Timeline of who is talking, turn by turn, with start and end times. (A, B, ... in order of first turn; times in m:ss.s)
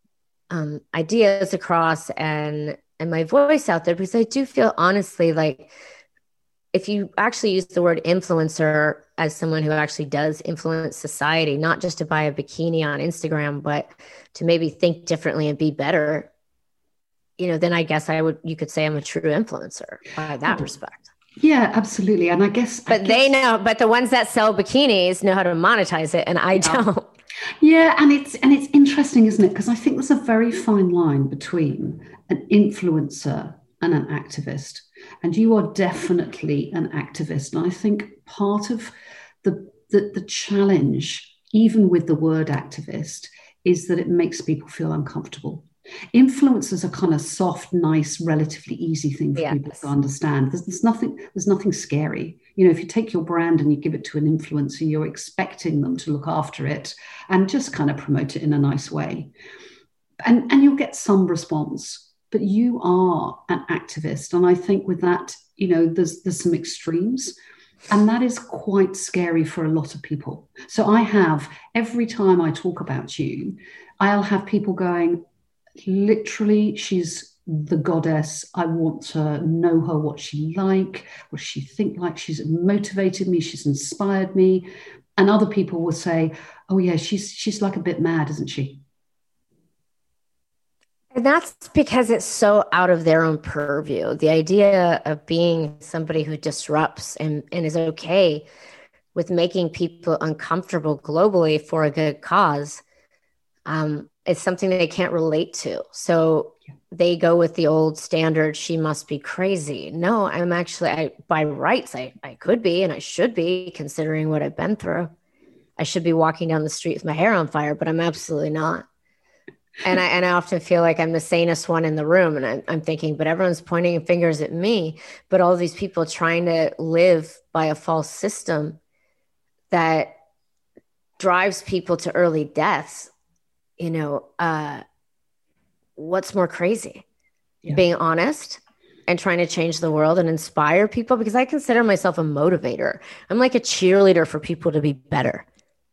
0:00.5-0:05.7 A
0:06.7-0:16.3 A
0:17.4-0:21.1 A
0:21.4-0:23.4 B
0:22.9-0:27.1 A
0:26.6-0:26.8 B
0:27.6-0:59.3 B
0:49.4-0:49.9 A
1:00.2-1:07.4 B
1:07.9-1:15.2 B
1:15.8-1:28.8 B
1:31.1-1:38.4 A
1:39.1-1:42.8 A
1:43.6-1:55.1 A
1:55.8-1:58.8 A
1:59.8-2:08.8 A
2:09.7-2:10.1 A
2:11.2-2:13.1 A
2:13.8-2:14.8 A
2:16.0-2:17.0 A
2:17.7-2:25.4 A